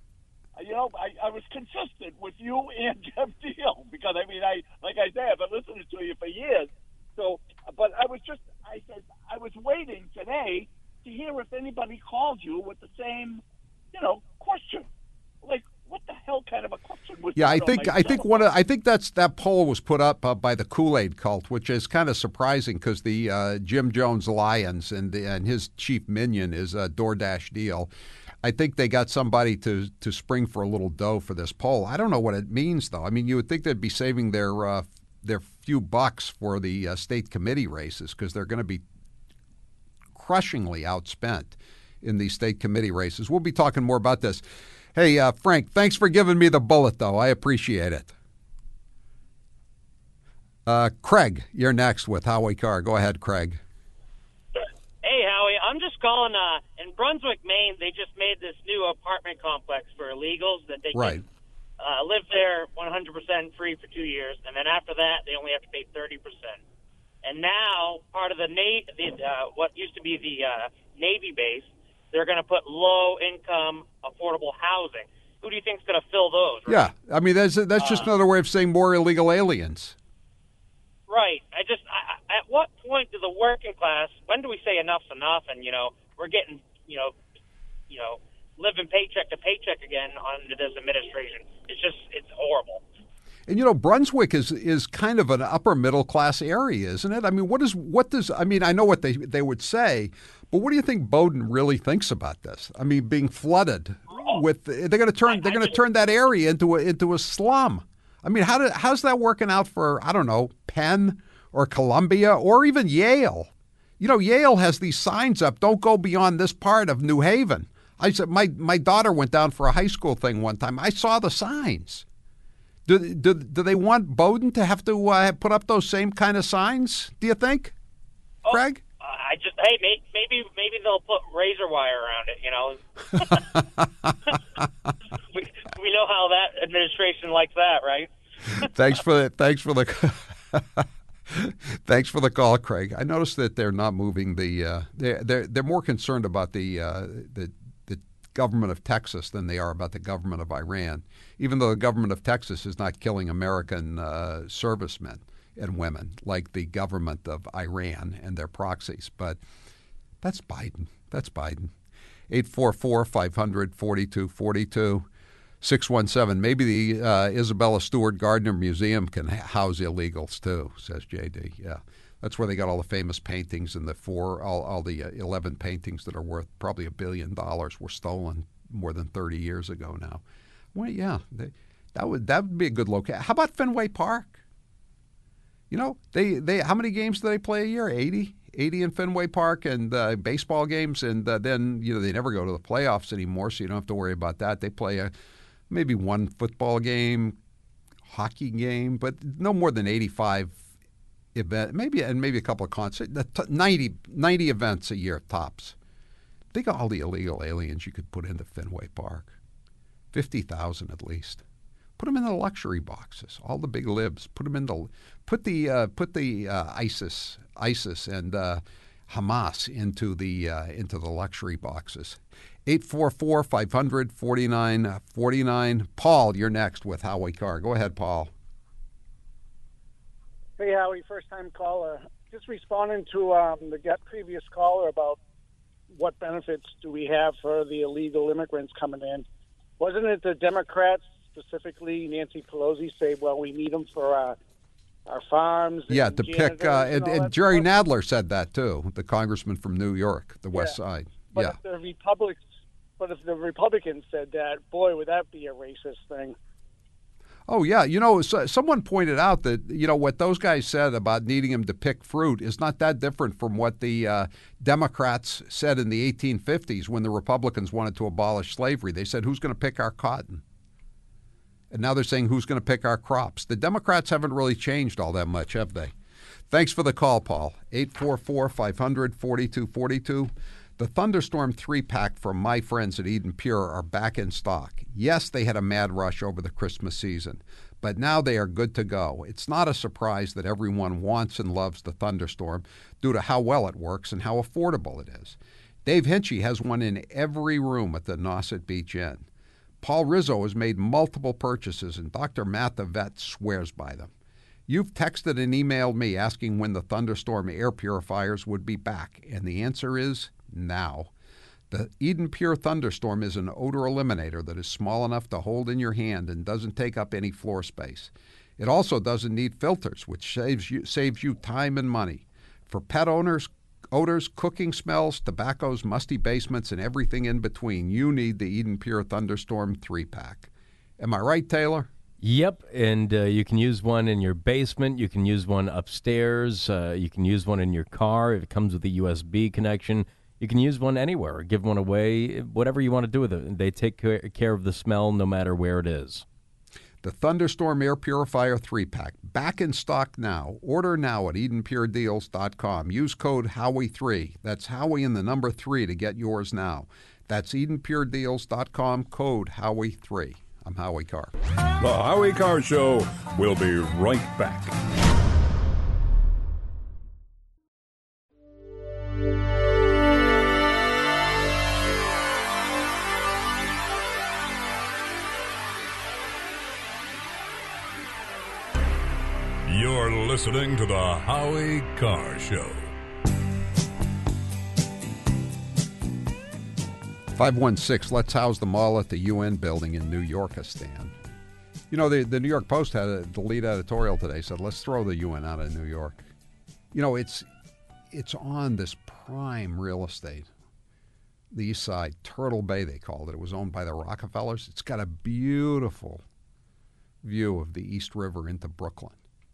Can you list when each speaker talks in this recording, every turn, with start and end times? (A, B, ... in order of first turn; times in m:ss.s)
0:00.5-0:13.4 A
0:13.9-0:14.8 A
0:15.4-0:18.5 A
0:17.4-0:27.9 B
0:28.4-0:38.8 B
0:40.1-0:44.4 B
0:44.9-0:48.1 B
0:50.7-0:53.6 B
0:54.6-1:01.2 C
1:00.9-1:01.2 B
1:01.8-1:06.6 C
1:07.2-1:16.9 C
1:16.7-1:20.0 B
1:17.8-1:18.1 C
1:21.1-1:27.1 C
1:27.9-1:32.8 C
1:33.5-2:02.0 B
1:45.3-1:45.7 C
2:02.9-2:07.7 B
2:08.4-2:13.4 C
2:08.5-2:08.8 B
2:13.5-2:13.8 B
2:15.3-2:18.7 C
2:18.6-2:39.4 B
2:40.2-2:41.7 B
2:42.3-2:45.1 B
2:45.6-3:00.2 B
3:00.7-3:04.4 B
3:05.7-3:15.1 B
3:15.7-3:17.4 B
3:18.0-3:20.6 B
3:21.3-3:25.7 B
3:26.5-3:29.3 B
3:30.1-3:31.4 B
3:32.0-3:48.3 B
3:50.6-3:55.2 D
3:55.9-3:59.2 D
3:59.8-4:04.4 D
4:05.1-4:07.7 D
4:05.9-4:11.6 B
4:10.5-4:10.8 D
4:11.3-4:12.4 D
4:13.0-4:16.4 D
4:17.5-4:30.4 B
4:31.7-4:35.9 B
4:36.5-4:59.3 B
4:59.8-5:04.1 B
5:04.7-5:11.1 B
5:11.7-5:31.9 B
5:32.2-5:46.2 E
5:47.0-6:01.3 B
6:01.8-6:04.7 F
6:19.7-6:22.9 F
6:27.3-6:31.1 B
6:31.9-6:36.2 B
6:36.9-6:37.5 B
6:38.1-6:40.5 B
6:41.5-6:46.2 B
6:47.2-6:49.2 B